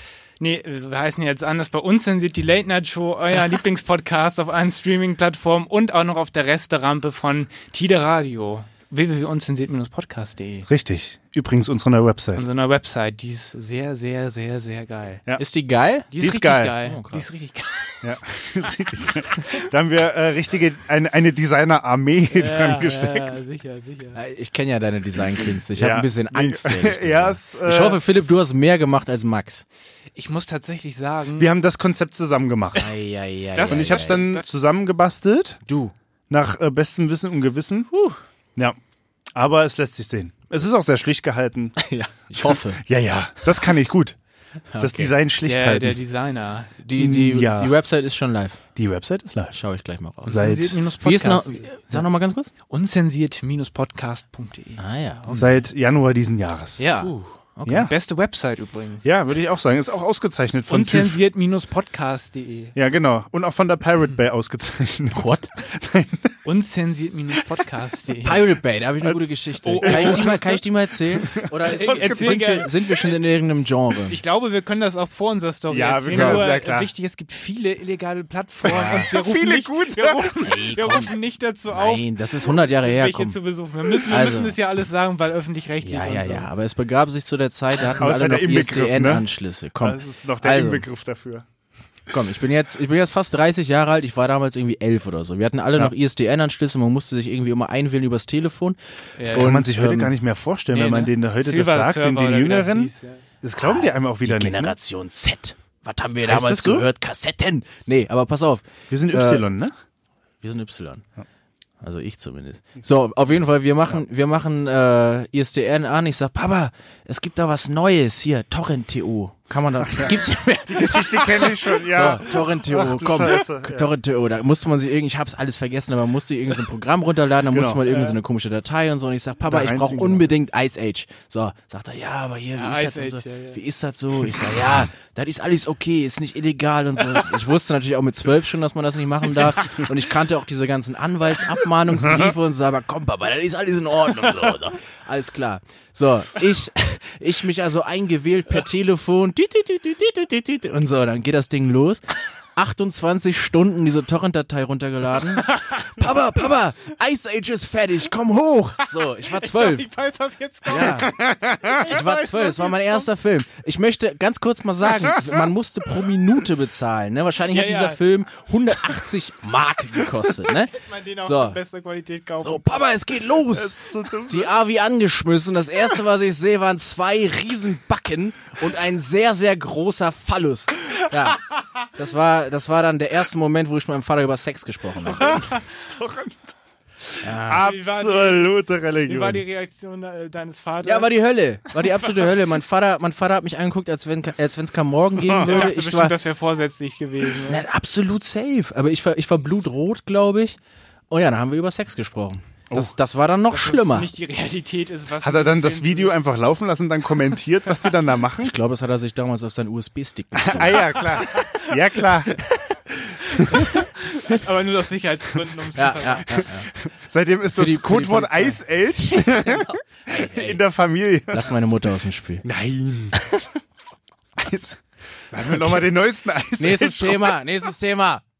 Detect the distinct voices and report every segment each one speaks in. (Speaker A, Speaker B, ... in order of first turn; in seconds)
Speaker A: 0.4-10.7, 12.3-15.2, 16.1-18.1, 19.3-19.6, 22.3-24.2, 30.1-31.5, 33.6-34.5, 45.4-46.7, 50.3-51.7, 52.7-54.8, 56.8-57.1, 57.7-59.1, 60.7-62.7, 66.5-68.5, 69.7-70.4, 71.6-73.2, 74.1-86.5, 99.2-99.6, 100.7-103.2, 132.6-133.6, 155.4-156.0, 159.3-163.1, 167.5-168.0, 170.7-172.8, 185.1-185.7, 187.5-188.5, 189.1-191.2, 191.7-192.3, 195.4-197.6, 203.5-206.1, 211.2-211.7, 213.3-216.4
Speaker B: 10.7-12.4, 16.2-16.8, 18.0-23.3, 25.8-28.0, 31.4-32.9, 33.7-35.6, 36.3-37.9, 39.3-41.8, 42.4-44.2, 44.8-46.0, 47.0-47.8, 48.8-49.6, 50.3-50.8, 55.3-56.8, 57.7-57.9, 59.0-61.2, 62.8-66.4, 69.0-70.6, 71.1-72.6, 75.7-76.9, 78.7-80.4, 88.0-89.3, 89.8-91.5, 99.3-102.9, 103.4-104.8, 106.3-106.9, 108.9-109.7, 120.0-123.9, 127.5-127.9, 129.5-130.3, 142.1-142.3, 161.2-161.8, 173.5-174.5, 185.1-186.5, 187.4-189.4, 195.2-195.7, 205.2-208.5, 210.3-212.4, 216.4-221.5, 222.4-223.2, 224.4-224.8, 225.3-227.4
Speaker C: 15.4-16.1, 16.8-17.3, 24.1-29.6, 32.8-34.3, 35.7-35.9, 37.9-38.2, 41.8-42.8, 44.7-45.1, 46.8-48.6, 49.5-52.5, 54.8-55.6, 57.0-57.9, 65.1-65.5, 68.2-74.2, 76.1-76.5, 78.7-79.1, 80.4-81.1, 81.7-83.4, 84.0-84.6, 85.8-90.9, 92.1-100.1, 103.6-109.5, 110.4-111.0, 111.8-159.9, 160.7-171.6, 172.4-181.4, 181.9-185.4, 187.2-187.7, 190.8-196.2, 197.4-200.6, 201.1-204.1, 208.4-211.3, 215.8-216.7, 217.6-220.6, 221.3-222.4, 223.2-223.5, 226.6-228.2